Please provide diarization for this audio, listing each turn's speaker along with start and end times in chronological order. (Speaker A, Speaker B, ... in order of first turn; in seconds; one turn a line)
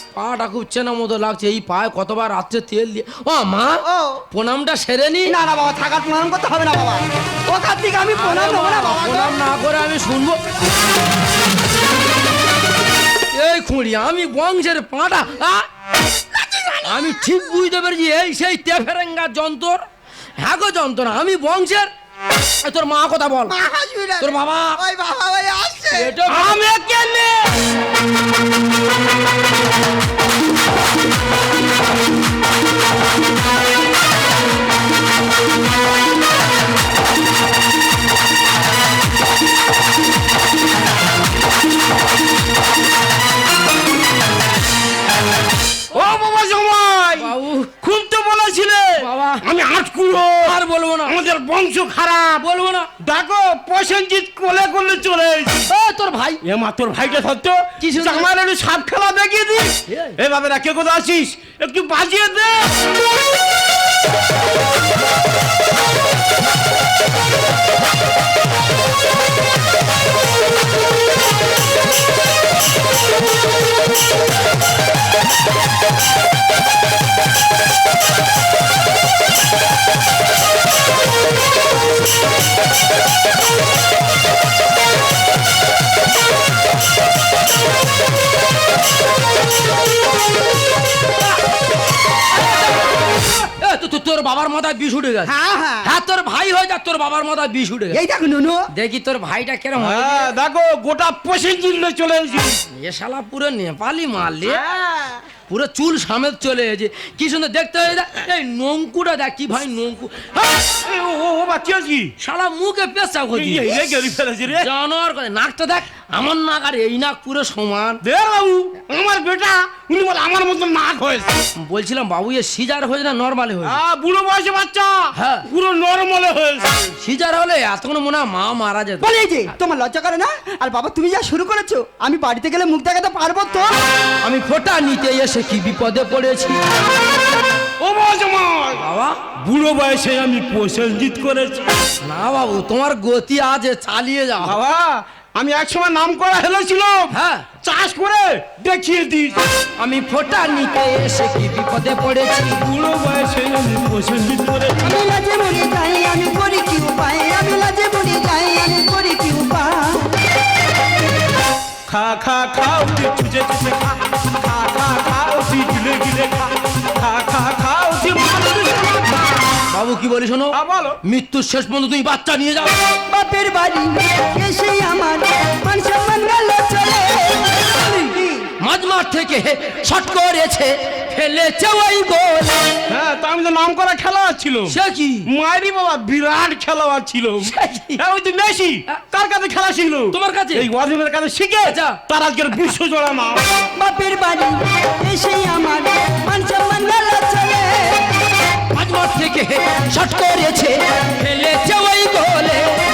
Speaker A: 0.1-5.3
Speaker B: 3.9-4.2
Speaker B: 5.2-9.3
Speaker A: 8.1-10.4
Speaker A: 13.3-15.7
Speaker B: 16.4-16.9
Speaker A: 16.8-19.8
Speaker A: 20.4-21.9
Speaker A: 22.6-23.5
Speaker B: 23.5-26.1
Speaker A: 24.2-24.8
Speaker A: 25.9-26.6
Speaker C: 26.3-27.7
Speaker C: 45.9-50.5
Speaker A: 47.2-47.7
Speaker A: 49.0-49.5
Speaker A: 50.4-51.2
Speaker C: 51.0-52.5
Speaker A: 52.4-52.9
Speaker C: 53.0-55.7
Speaker A: 55.7-56.4
Speaker C: 56.4-62.8
Speaker A: 57.8-58.3
Speaker A: 59.9-60.1
Speaker A: 92.3-95.3
Speaker B: 95.2-95.9
Speaker A: 95.8-98.0
Speaker B: 97.9-98.7
Speaker A: 98.7-100.3
Speaker C: 99.8-102.6
Speaker A: 102.7-104.6
Speaker B: 104.4-105.2
Speaker A: 105.5-110.5
Speaker C: 110.6-112.1
Speaker A: 112.2-113.8
Speaker C: 113.3-114.7
Speaker A: 114.5-118.0
Speaker C: 118.0-121.4
Speaker A: 121.6-123.8
Speaker C: 123.6-126.9
Speaker A: 125.1-125.4
Speaker A: 127.0-129.1
Speaker B: 129.0-133.7
Speaker A: 134.2-136.6
Speaker C: 137.8-138.8
Speaker A: 138.8-139.2
Speaker C: 139.4-141.7
Speaker A: 142.0-144.6
Speaker C: 144.4-149.4
Speaker A: 147.1-147.4
Speaker A: 149.8-152.6
Speaker C: 152.6-154.9
Speaker B: 154.8-160.1
Speaker C: 161.9-169.3
Speaker A: 169.7-172.7
Speaker C: 170.5-171.0
Speaker B: 173.1-178.5
Speaker A: 177.7-182.7
Speaker C: 182.9-193.4
Speaker A: 184.7-185.3
Speaker A: 187.5-188.0
Speaker A: 190.1-190.7
Speaker A: 191.6-192.0
Speaker B: 193.8-198.0
Speaker A: 198.7-202.8